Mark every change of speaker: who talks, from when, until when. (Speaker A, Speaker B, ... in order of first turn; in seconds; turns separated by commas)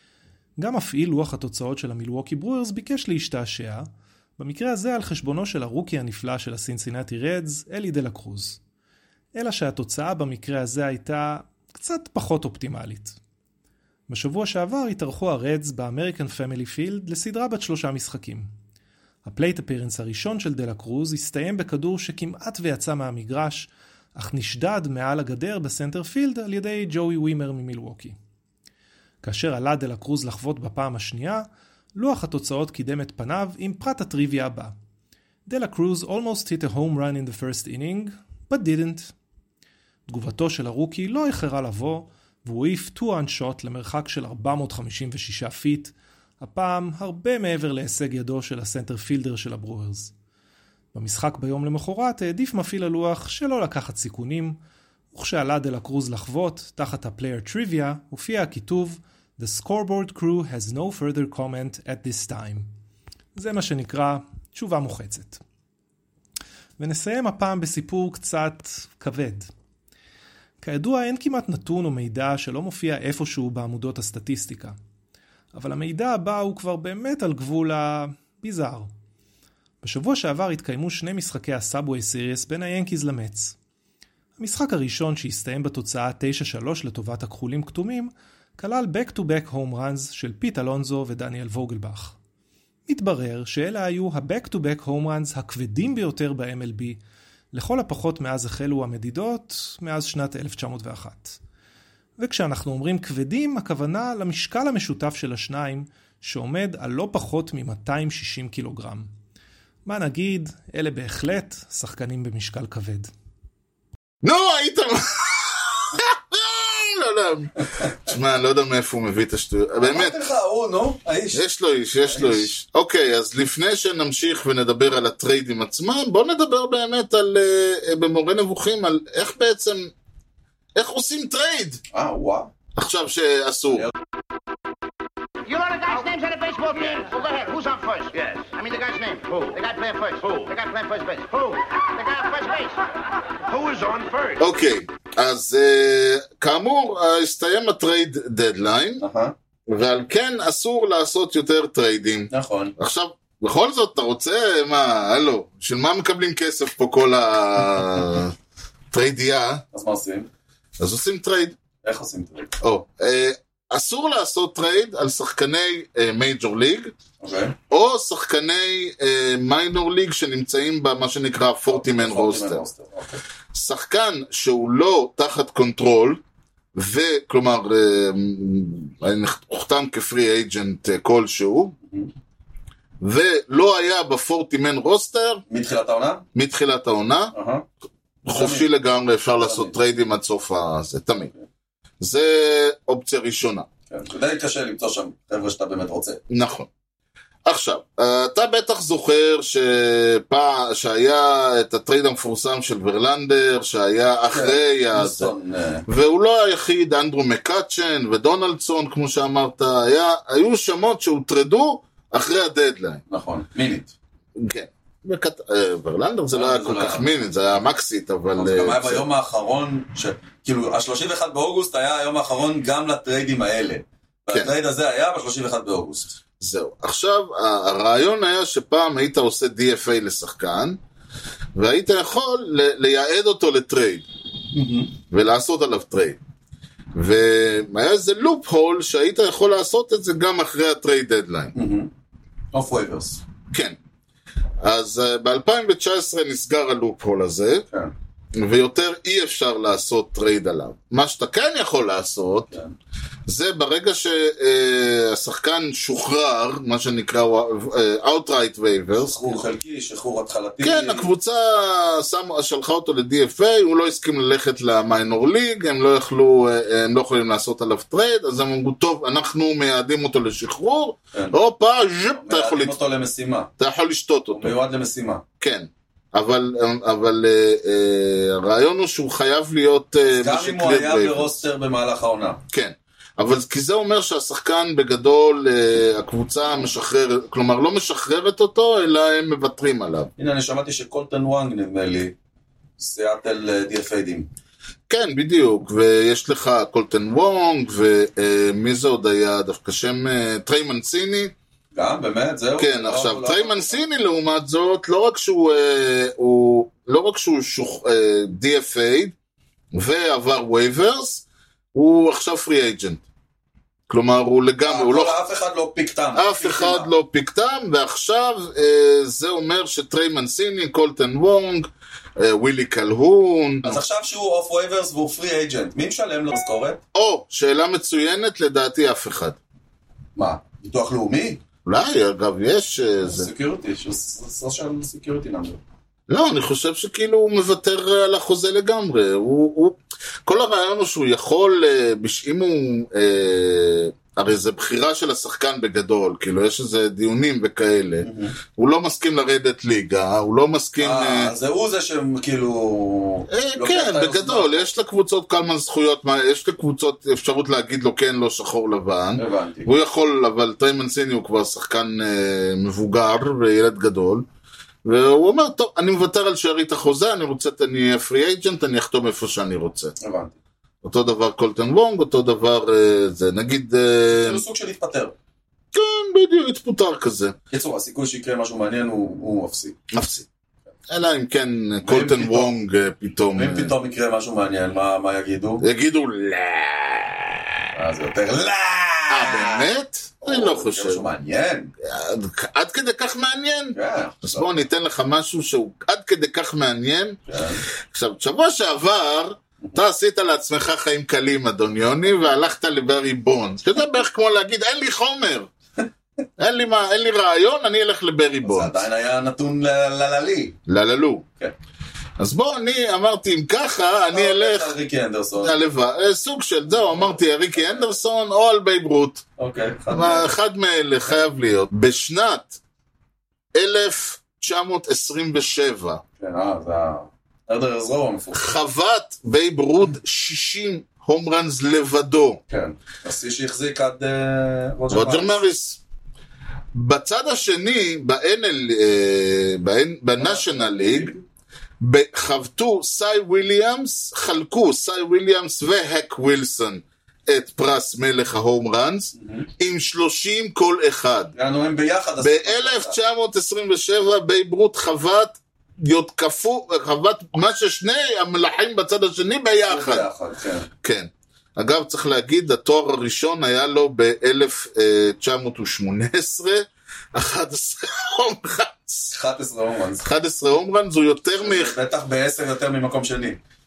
Speaker A: 0.6-8.6, Speaker A: 9.3-13.2, Speaker A: 14.1-18.5, Speaker A: 19.2-28.2, Speaker A: 29.2-34.7, Speaker A: 35.5-39.1, Speaker A: 40.1-50.1, Speaker A: 50.9-54.6, Speaker A: 55.1-62.7, Speaker A: 63.4-65.4, Speaker A: 66.8-69.5, Speaker A: 70.6-74.8, Speaker A: 75.5-78.9, Speaker A: 79.8-83.6, Speaker A: 84.4-92.1, Speaker A: 92.9-97.0, Speaker A: 97.5-101.4, Speaker A: 102.2-109.1, Speaker A: 109.8-113.1, Speaker B: 114.2-120.2, Speaker C: 119.8-121.5, Speaker B: 121.3-129.9, Speaker C: 122.0-122.5, Speaker B: 130.8-131.8, Speaker C: 131.9-132.5, Speaker B: 132.7-133.9, Speaker D: 135.4-142.9, Speaker D: 143.4-144.4, Speaker B: 144.4-149.0, Speaker C: 149.0-149.3, Speaker B: 149.7-158.3, Speaker C: 152.3-152.7, Speaker B: 158.9-159.6, Speaker C: 159.7-160.3, Speaker B: 160.8-161.6, Speaker C: 161.8-162.6, Speaker B: 162.6-166.9, Speaker C: 167.2-167.6, Speaker B: 167.7-172.6, Speaker C: 171.7-173.2, Speaker B: 173.5-176.2, Speaker B: 176.7-181.7, Speaker B: 183.0-185.4, Speaker C: 185.5-186.3, Speaker B: 186.3-187.3, Speaker C: 187.3-187.7, Speaker C: 188.3-188.7, Speaker B: 188.3-191.3, Speaker C: 189.4-189.8, Speaker B: 192.0-193.7, Speaker C: 193.9-196.2, Speaker B: 196.3-196.7, Speaker B: 197.4-205.3, Speaker C: 204.3-205.8, Speaker B: 205.9-213.0, Speaker C: 213.1-213.9, Speaker B: 214.4-219.0, Speaker C: 216.3-217.1, Speaker C: 218.4-226.2, Speaker B: 226.4-230.8, Speaker B: 231.6-234.1, Speaker C: 234.5-234.9, Speaker B: 235.1-236.2, Speaker B: 236.9-241.5, Speaker C: 241.5-241.9, Speaker C: 242.5-243.2, Speaker B: 243.5-243.8, Speaker B: 244.6-247.7, Speaker B: 248.3-252.5, Speaker B: 253.3-259.3, Speaker C: 258.9-261.1, Speaker B: 260.6-272.8, Speaker C: 272.2-273.5, Speaker B: 273.6-274.6, Speaker C: 274.3-275.2, Speaker B: 275.4-281.4, Speaker C: 280.1-282.4, Speaker B: 282.5-290.1, Speaker C: 290.2-292.1, Speaker C: 292.8-294.3, Speaker B: 294.9-301.3, Speaker C: 301.7-303.8, Speaker B: 302.6-309.1, Speaker B: 309.7-313.0, Speaker B: 313.9-315.2, Speaker C: 314.6-316.9, Speaker B: 316.1-323.8, Speaker C: 323.6-326.8, Speaker B: 326.9-329.4, Speaker C: 330.2-331.4, Speaker B: 331.6-333.3, Speaker C: 333.0-335.6, Speaker B: 336.1-351.3, Speaker C: 348.0-348.4, Speaker C: 350.8-354.7, Speaker B: 353.3-364.2, Speaker C: 359.2-359.7, Speaker B: 364.9-369.9, Speaker C: 370.0-370.4, Speaker B: 370.8-374.4, Speaker C: 374.1-375.2, Speaker B: 375.7-377.4, Speaker C: 377.5-379.8, Speaker B: 379.9-380.3, Speaker B: 380.9-383.7, Speaker C: 381.8-382.6, Speaker C: 383.4-385.6, Speaker B: 385.6-387.4, Speaker C: 387.7-389.7, Speaker B: 389.1-391.0, Speaker C: 390.2-391.7, Speaker B: 391.8-397.2, Speaker C: 393.7-394.5, Speaker C: 397.3-397.6, Speaker B: 397.9-405.5, Speaker B: 406.4-408.8, Speaker C: 408.4-410.6, Speaker B: 410.7-411.2, Speaker B: 412.2-414.7, Speaker C: 414.1-415.5, Speaker B: 415.4-419.2, Speaker C: 416.7-418.0, Speaker C: 419.4-420.3, Speaker B: 419.9-422.6, Speaker B: 423.6-426.0, Speaker C: 426.2-428.5, Speaker B: 428.3-432.4, Speaker C: 432.5-435.4, Speaker B: 434.9-435.8, Speaker B: 436.7-441.1, Speaker C: 440.2-441.2, Speaker B: 441.8-451.3, Speaker C: 449.2-449.5, Speaker C: 451.4-453.0, Speaker B: 452.2-460.1, Speaker C: 459.7-460.7, Speaker B: 460.8-469.2, Speaker C: 469.1-470.1, Speaker B: 470.0-471.7, Speaker C: 471.4-473.4